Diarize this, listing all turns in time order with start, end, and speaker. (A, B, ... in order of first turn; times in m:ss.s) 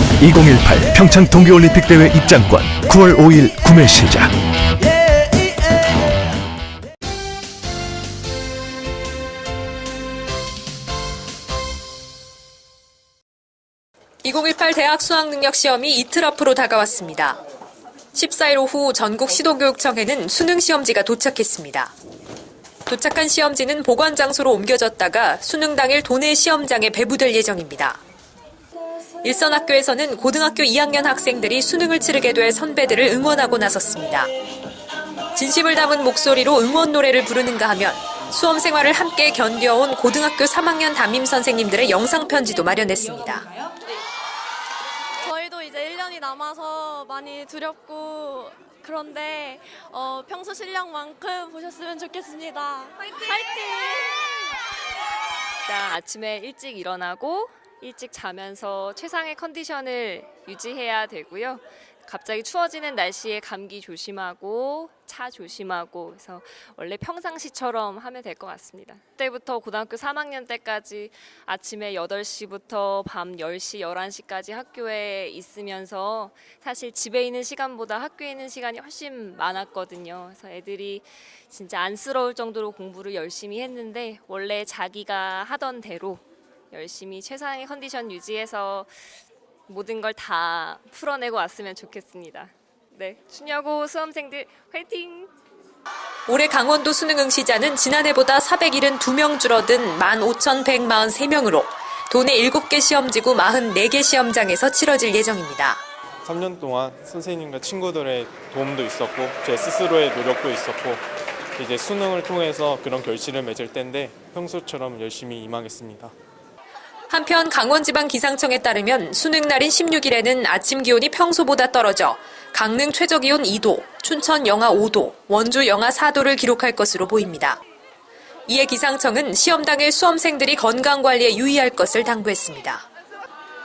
0:00.2-0:04.3 A
0:14.2-0:17.4 B
0:18.1-0:21.9 B
0:22.9-0:28.0 B
0:29.2-0:34.3 B
0:35.3-0:43.5 B
0:45.2-0:54.3 C
0:55.6-1:29.1 D
1:29.7-1:35.3 D
1:36.3-1:45.8 B
1:46.2-1:56.1 E
1:57.1-2:07.6 B
2:08.5-2:12.8 B